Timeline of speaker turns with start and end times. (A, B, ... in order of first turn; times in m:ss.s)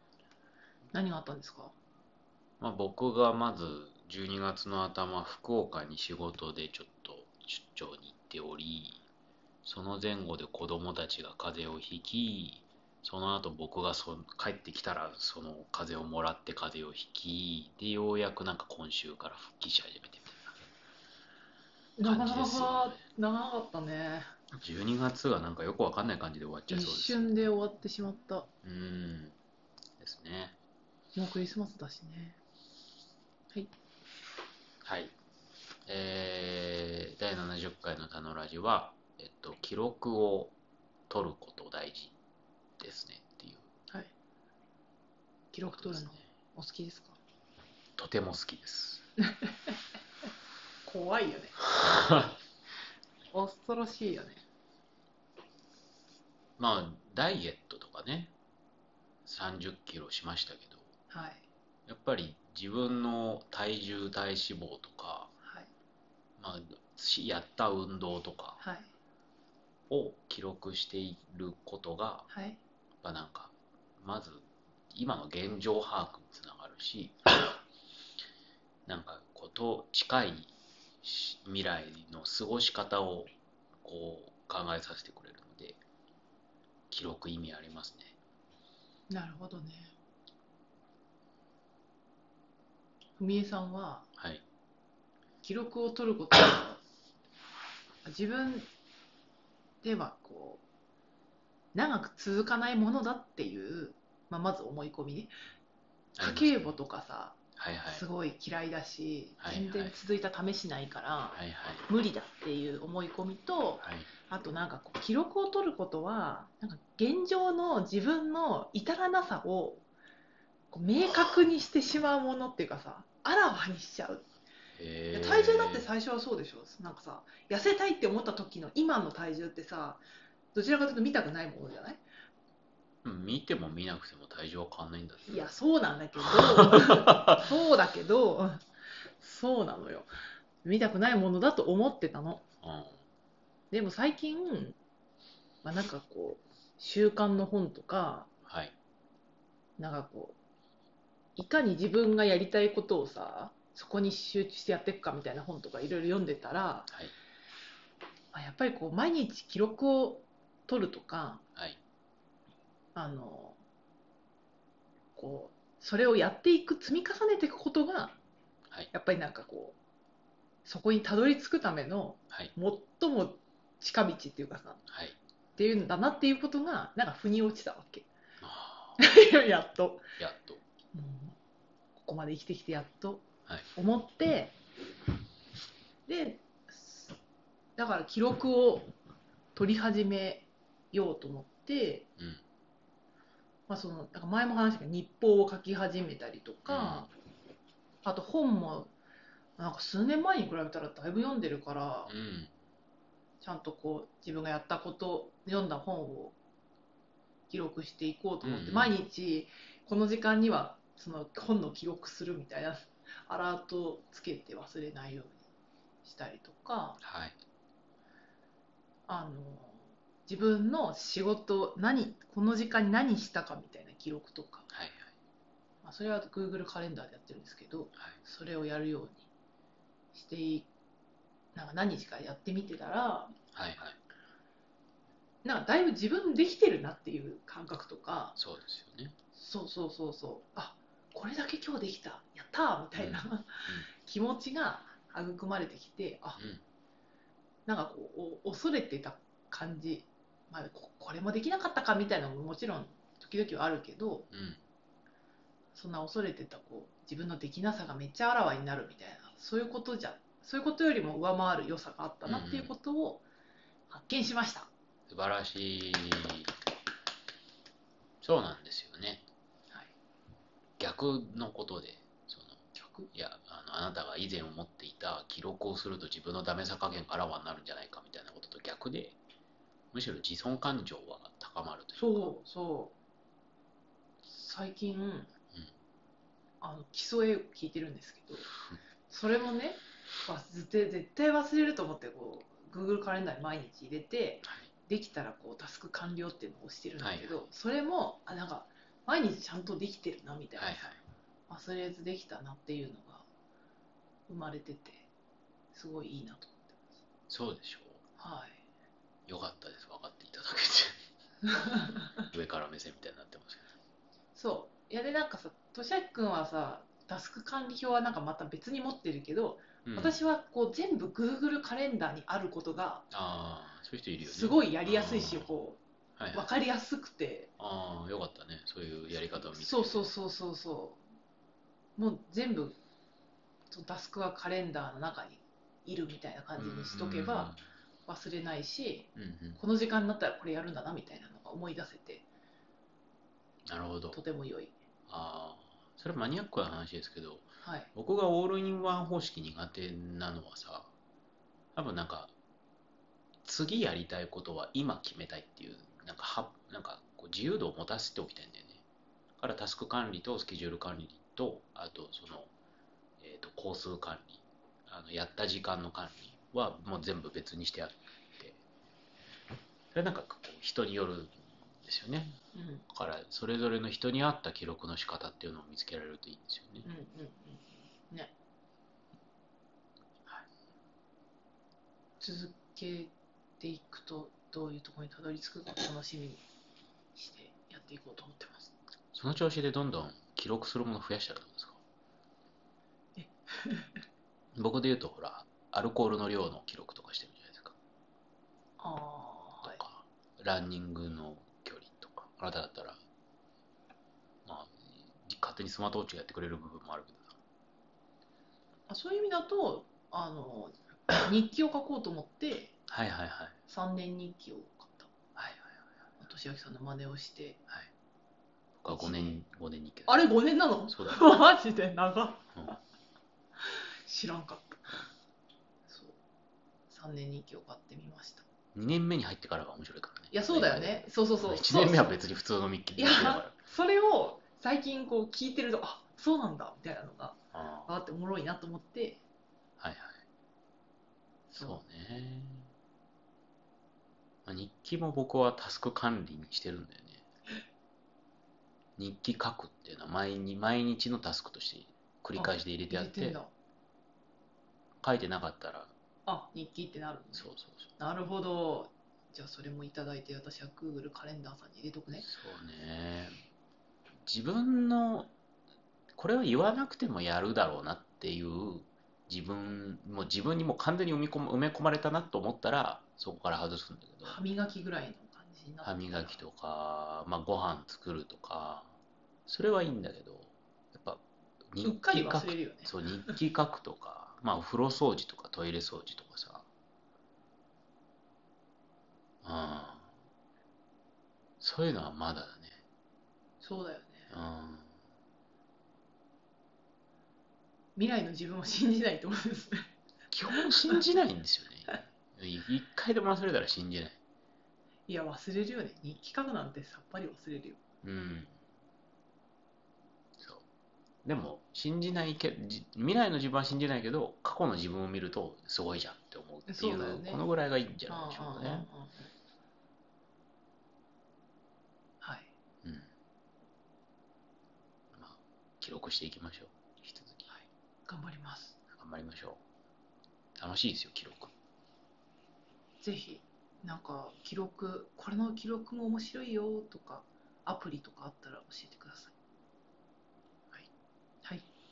0:00.9-0:01.7 A
0:02.6-0:09.0 B
0:09.6-0:20.6 B
0:22.0-0:24.3 A
0:22.0-0:23.0 B
0:24.5-0:27.5 B
0:26.7-0:28.5 A
0:28.6-0:29.4 B
0:30.0-0:30.6 B
0:31.1-0:32.4 A
0:34.8-0:35.1 B
0:35.8-0:40.5 B
0:41.1-0:42.2 B
0:42.8-0:43.6 B
0:45.5-0:47.2 A
0:45.7-0:46.2 B
0:48.0-0:49.0 B
0:49.3-0:49.7 A
0:50.8-0:51.6 A
0:51.6-0:52.4 B
0:53.3-0:54.4 A
0:56.6-0:58.3 B
0:59.2-1:00.9 B
1:01.1-1:01.4 A
1:01.9-1:05.3 B
1:05.4-1:05.7 A
1:06.4-1:08.6 B
1:08.6-1:08.9 A
1:09.9-1:12.3 B
1:12.3-1:12.6 A
1:13.0-1:17.6 B
1:18.8-1:20.5 B
1:21.0-1:23.3 B
1:23.8-1:25.8 B
1:26.9-1:28.2 B
1:29.1-1:29.9 A
1:33.2-1:34.1 A
1:34.2-1:34.4 B
1:35.4-1:36.8 A
1:38.0-1:38.7 A
1:39.8-1:40.6 A
1:41.7-1:45.3 A
1:46.2-1:46.8 B
1:46.2-1:59.8 A
1:47.6-1:48.1 B
1:49.4-1:49.9 B
1:51.3-1:51.8 B
1:53.8-1:54.1 B
2:00.7-2:04.2 A
2:04.7-2:05.9 B
2:05.1-2:10.0 A
2:10.5-2:12.0 A
2:13.0-2:15.5 B
2:15.3-2:18.6 A
2:16.3-2:17.2 B
2:19.2-2:20.1 A
2:20.6-2:22.4 A
2:22.6-2:23.0 B
2:23.7-2:24.8 A
2:25.6-2:28.3 A
2:28.4-2:28.7 B
2:29.8-2:30.4 A
2:31.4-2:36.9 A
2:38.3-2:41.4 A
2:42.9-2:43.6 A
2:45.2-2:48.2 A
2:48.9-2:49.8 A
2:50.6-2:54.8 A
2:54.9-2:55.2 B
2:55.6-2:58.1 A
2:58.4-2:59.0 B
2:59.0-3:00.0 A
3:00.2-3:00.6 B
3:00.9-3:01.4 A
3:02.0-3:04.6 A
3:06.1-3:07.2 A
3:07.8-3:08.9 A
3:09.5-3:12.0 A
3:13.7-3:17.1 A
3:16.7-3:17.1 B
3:18.0-3:18.9 A
3:19.6-3:22.1 A
3:22.0-3:22.5 B
3:23.4-3:26.4 A
3:27.5-3:35.4 A
3:28.4-3:29.0 B
3:36.0-3:37.0 A
3:37.0-3:37.4 B
3:39.1-3:44.7 A
3:44.7-3:45.1 B
3:45.8-3:49.3 A
3:50.1-3:50.7 A
3:51.5-3:53.3 A
3:53.5-3:54.0 B
3:55.4-3:58.4 A
3:58.4-3:59.1 B
3:59.3-4:06.4 A
4:03.0-4:03.9 B
4:06.4-4:06.6 B
4:07.6-4:14.3 A
4:14.3-4:14.6 B
4:15.7-4:23.2 A
4:22.2-4:22.7 B
4:23.9-4:24.7 A
4:25.1-4:26.5 B
4:28.2-4:29.2 B
4:30.8-4:39.2 B
4:32.7-4:33.1 A
4:39.9-4:42.3 B
4:41.9-4:42.9 A
4:44.2-4:45.3 A
4:46.6-4:48.5 A
4:49.1-5:00.9 A
4:57.0-4:57.3 B
5:00.6-5:01.0 B
5:01.5-5:03.3 A
5:04.3-5:05.0 A
5:05.7-5:06.8 A
5:07.3-5:08.0 B
5:08.2-5:08.6 A
5:09.3-5:11.0 B
5:11.5-5:11.8 A
5:12.2-5:13.7 B
5:14.3-5:23.1 A
5:19.8-5:20.2 B
5:23.1-5:25.5 B
5:24.2-5:25.8 A
5:26.2-5:26.5 B
5:26.3-5:27.5 A
5:27.6-5:30.1 B
5:29.5-5:31.0 A
5:32.0-5:32.8 A
5:33.7-5:37.5 A
5:36.6-5:37.6 B
5:38.0-5:42.2 A
5:39.2-5:39.6 B
5:43.6-5:44.2 B
5:44.1-5:44.7 A
5:45.1-5:50.9 B
5:47.6-5:47.9 A
5:51.7-5:52.3 B
5:53.4-5:58.8 B
5:59.4-6:02.5 B
6:03.2-6:08.6 B
6:09.9-6:16.9 B
6:12.5-6:12.8 A
6:16.8-6:18.3 A
6:22.2-6:26.4 A
6:27.1-6:28.7 A
6:29.1-6:31.8 B
6:33.2-6:34.0 A
6:34.5-6:37.7 B
6:38.8-6:39.8 A
6:39.6-6:43.0 B
6:44.4-6:47.4 B
6:48.9-6:52.7 A
6:52.9-6:53.5 B
6:53.7-6:55.1 A
6:55.4-6:55.7 B
6:56.2-6:57.6 A
6:58.8-7:00.2 B
6:58.9-6:59.2 A
7:00.1-7:02.7 A
7:00.9-7:01.3 B
7:03.6-7:05.0 A
7:05.9-7:06.2 A
7:06.9-7:08.4 A
7:08.7-7:13.5 B
7:10.3-7:12.2 A
7:12.9-7:19.2 A
7:17.5-7:17.9 B
7:19.8-7:20.2 B
7:21.5-7:21.8 A
7:21.5-7:22.7 B
7:24.4-7:27.2 B
7:29.0-7:33.4 B
7:32.3-7:33.5 A
7:35.0-7:35.9 B
7:36.2-7:42.3 A
7:37.3-7:37.9 B
7:42.2-7:43.3 B
7:44.2-7:45.3 B
7:46.1-7:54.4 B
7:54.2-7:56.4 A
7:55.8-7:58.9 B
7:59.5-8:06.6 B
8:01.8-8:03.3 A
8:09.4-8:10.1 B
8:11.6-8:12.8 B
8:13.6-8:14.3 A
8:14.3-8:14.9 B
8:18.0-8:19.9 A
8:20.3-8:24.2 B
8:25.1-8:27.8 A
8:28.0-8:28.5 B
8:30.4-8:30.6 B
8:31.2-8:38.9 B
8:36.7-8:37.4 A
8:38.1-8:39.3 A
8:42.2-8:42.5 A
8:42.8-8:43.1 B
8:45.1-8:47.6 B
8:47.5-8:48.8 A
8:48.9-8:49.6 B
8:50.6-8:51.5 B
8:53.0-8:59.3 A